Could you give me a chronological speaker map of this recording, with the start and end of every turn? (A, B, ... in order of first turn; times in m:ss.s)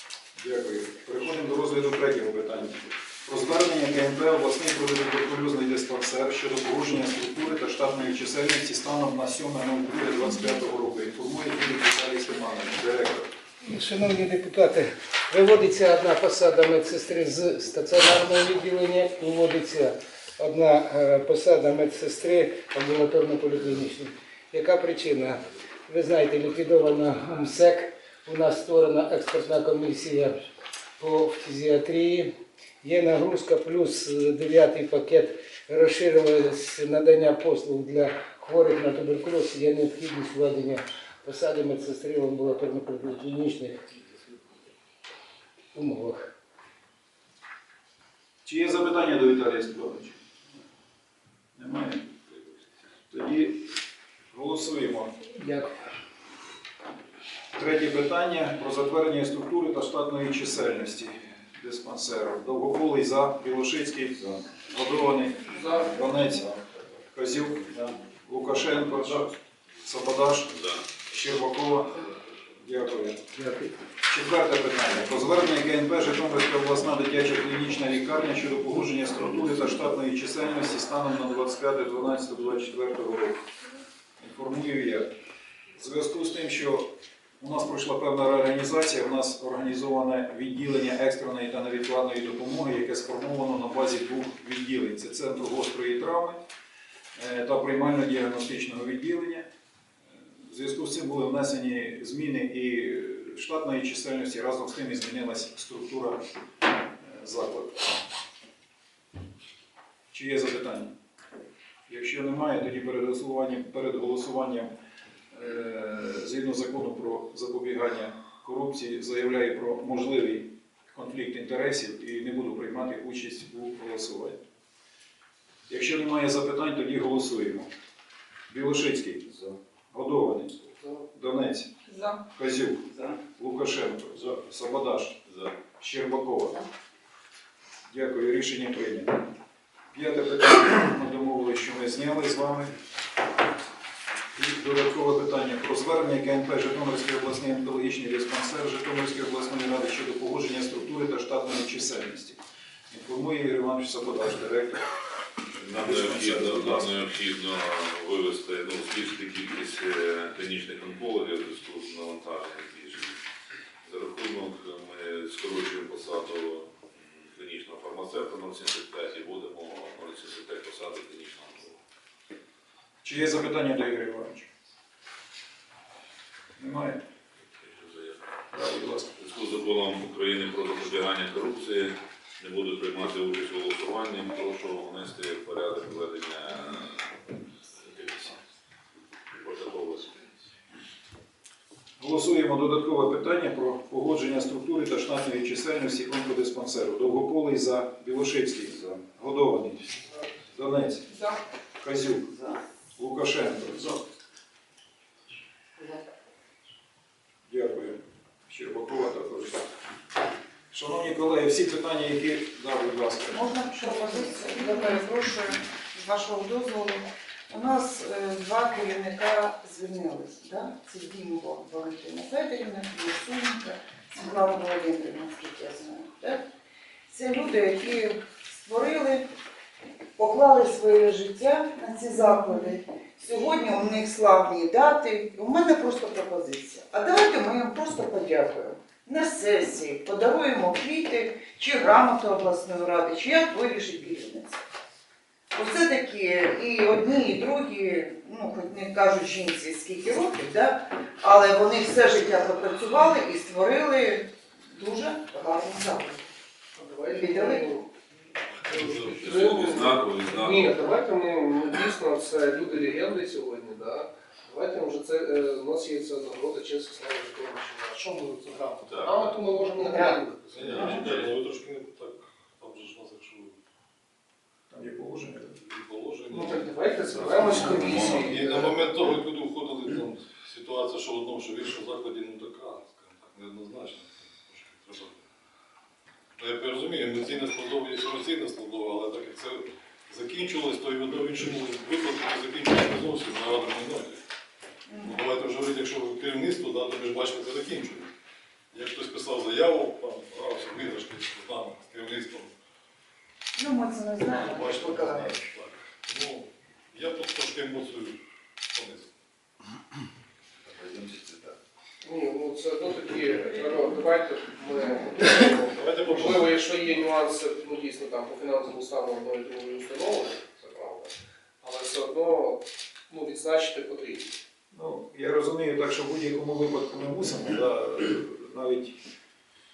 0:00.4-0:13.3 A
0:13.6-0:30.3 B
0:31.0-0:32.3 B
0:32.8-0:43.8 B
0:45.7-0:46.2 B
0:48.4-0:50.2 A
0:51.6-0:52.1 A
0:53.1-0:53.7 A
0:54.3-0:55.1 A
0:55.4-0:55.8 B
0:57.6-1:09.3 A
1:05.5-1:06.0 C
1:09.8-1:13.2 A
1:14.0-1:23.4 A
1:24.2-1:25.1 A
1:25.8-1:26.9 A
1:27.4-1:36.4 A
1:37.2-1:39.5 A
1:40.4-1:46.2 A
1:47.0-1:48.0 A
1:50.1-1:50.9 A
1:51.9-1:54.7 A
1:55.3-2:04.4 A
2:05.7-2:07.7 A
2:08.5-2:10.6 A
2:11.1-2:11.7 A
2:12.3-2:16.6 A
2:17.9-2:19.2 A
2:19.9-2:22.8 A
2:24.4-2:34.9 A
2:35.6-2:43.2 D
2:35.7-2:36.9 A
2:43.8-2:51.8 D
2:53.0-2:54.5 A
2:56.6-2:57.0 A
2:57.6-2:58.2 D
2:58.5-2:59.1 A
2:59.2-3:07.2 D
3:07.8-3:08.4 D
3:09.3-3:10.2 D
3:12.0-3:21.2 A
3:21.8-3:22.3 A
3:23.0-3:24.0 A
3:27.5-3:29.6 A
3:30.7-3:33.5 A
3:33.3-3:46.4 E
3:47.1-3:49.3 E
3:50.2-4:04.6 E
4:05.5-4:16.2 E
4:16.8-4:17.9 C
4:17.1-4:17.7 E
4:18.5-4:19.6 F
4:18.7-4:31.2 C
4:19.2-4:20.7 D
4:28.8-4:29.2 D
4:29.8-4:30.1 E
4:30.5-4:33.6 F
4:30.7-4:31.2 D
4:34.7-4:35.6 A
4:35.6-4:36.6 F
4:36.3-4:38.8 C
4:37.7-4:38.2 D
4:38.2-4:45.2 F
4:46.4-4:54.2 F
4:54.9-4:55.2 E
4:55.0-4:58.1 F
4:58.7-5:02.5 F
5:03.6-5:05.4 E
5:04.2-5:08.2 F
5:08.7-5:09.1 F
5:12.0-5:24.3 C
5:15.7-5:16.9 F
5:24.7-5:29.0 A